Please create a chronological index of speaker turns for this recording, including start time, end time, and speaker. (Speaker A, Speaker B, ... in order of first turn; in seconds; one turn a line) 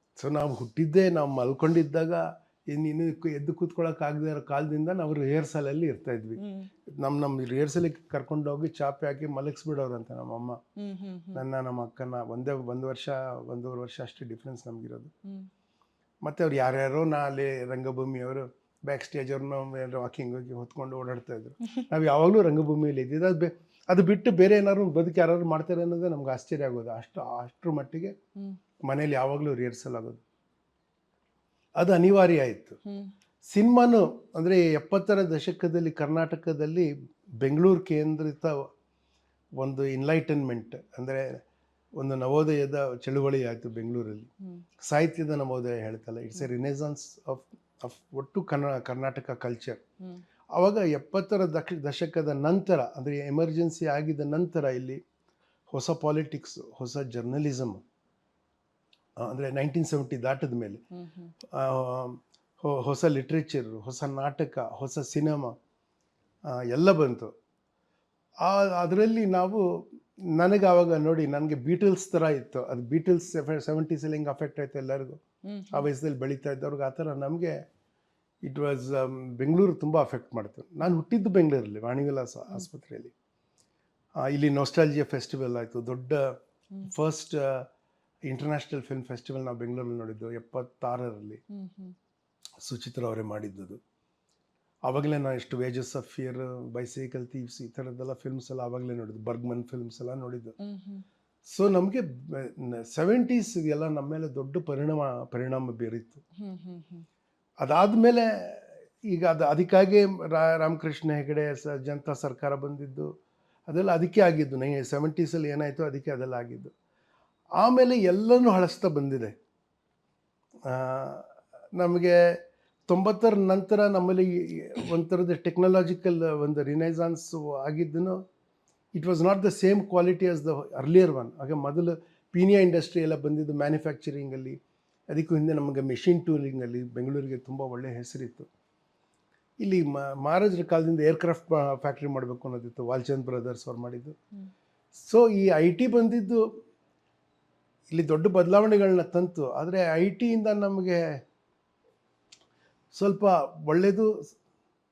Speaker A: 0.2-10.6
Speaker B: 6.4-6.7
Speaker B: 10.8-11.4
Speaker A: 11.3-15.1
Speaker A: 16.2-28.1
Speaker A: 28.8-30.2
Speaker A: 31.8-32.8
Speaker B: 32.9-33.1
Speaker A: 33.5-36.9
Speaker A: 37.4-38.7
Speaker A: 39.6-41.4
Speaker A: 42.0-44.3
Speaker A: 44.8-49.8
Speaker A: 50.5-55.0
Speaker A: 55.7-57.8
Speaker A: 59.2-60.8
Speaker B: 60.9-61.3
Speaker A: 61.5-65.5
Speaker A: 66.5-67.3
Speaker A: 68.4-69.6
Speaker A: 70.3-77.6
Speaker B: 75.4-75.9
Speaker A: 78.4-83.1
Speaker A: 84.2-87.7
Speaker A: 88.2-91.4
Speaker B: 91.5-92.0
Speaker A: 92.6-93.8
Speaker A: 94.8-100.5
Speaker B: 100.6-101.0
Speaker A: 101.5-106.2
Speaker B: 106.4-107.0
Speaker A: 107.6-113.1
Speaker A: 113.7-116.7
Speaker A: 117.6-119.3
Speaker A: 120.7-128.2
Speaker A: 128.9-134.6
Speaker A: 135.1-138.5
Speaker A: 139.6-144.2
Speaker A: 144.9-146.5
Speaker A: 147.9-151.2
Speaker A: 152.9-154.3